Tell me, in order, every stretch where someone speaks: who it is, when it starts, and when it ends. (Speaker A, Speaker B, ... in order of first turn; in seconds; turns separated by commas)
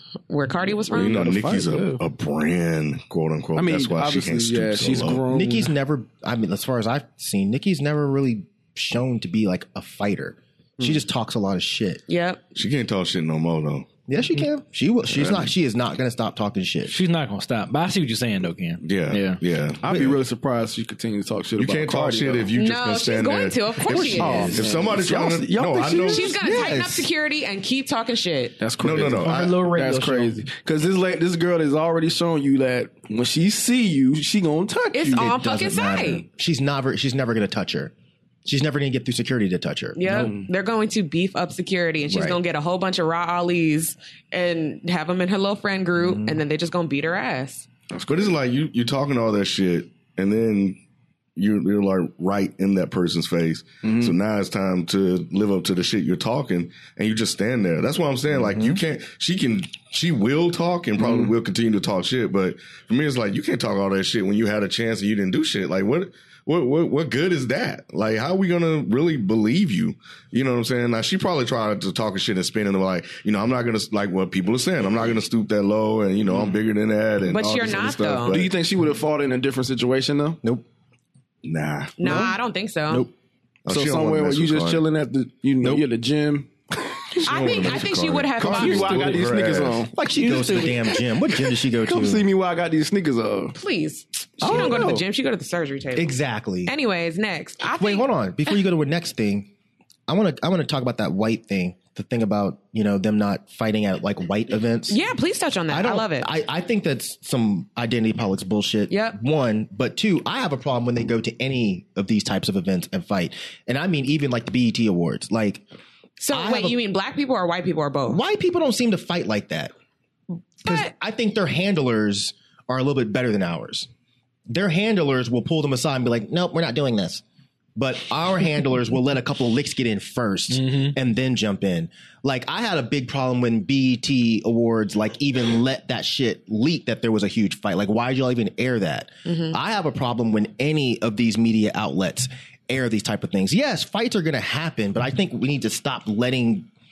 Speaker A: 0.3-1.3, Speaker B: 0.9-5.2, Speaker C: 0.9-2.0, Speaker C: 3.6-5.7, Speaker D: 5.3-12.0, Speaker A: 12.1-12.4, Speaker B: 12.5-13.9, Speaker D: 14.1-16.9, Speaker B: 15.1-15.5, Speaker E: 16.9-19.4, Speaker B: 18.8-19.9, Speaker C: 19.8-22.5, Speaker D: 19.8-20.2, Speaker B: 21.6-26.4, Speaker A: 22.5-24.6, Speaker C: 23.9-26.4, Speaker A: 26.1-28.5, Speaker D: 26.4-27.1, Speaker C: 28.6-35.3, Speaker B: 28.8-29.6, Speaker E: 29.2-30.4, Speaker A: 34.9-36.2, Speaker D: 35.1-37.9, Speaker D: 38.4-40.0, Speaker A: 40.0-47.7, Speaker C: 40.0-40.5, Speaker D: 42.1-42.4, Speaker D: 46.0-46.4, Speaker B: 47.9-50.8, Speaker B: 51.4-78.5, Speaker C: 53.8-54.1, Speaker C: 61.0-61.3, Speaker C: 76.3-76.5, Speaker A: 77.3-78.4, Speaker C: 78.3-80.4, Speaker B: 81.4-82.3, Speaker A: 82.0-83.1, Speaker C: 82.0-82.3, Speaker B: 83.7-84.8, Speaker C: 83.7-87.8, Speaker B: 87.2-89.9, Speaker A: 87.2-89.2, Speaker C: 88.4-93.5, Speaker D: 89.9-92.2, Speaker A: 93.5-96.1, Speaker C: 94.4-95.0, Speaker D: 94.5-94.8, Speaker D: 95.9-96.7, Speaker A: 96.7-98.1, Speaker D: 97.8-99.5, Speaker D: 100.1-105.0, Speaker A: 104.9-106.3, Speaker D: 105.7-115.6, Speaker A: 108.9-109.2, Speaker A: 116.2-118.2, Speaker D: 116.3-116.8, Speaker D: 118.1-119.7, Speaker A: 120.6-120.9, Speaker D: 120.6-123.9, Speaker D: 124.5-127.2, Speaker D: 127.8-146.7, Speaker E: 130.5-130.9, Speaker A: 139.2-139.6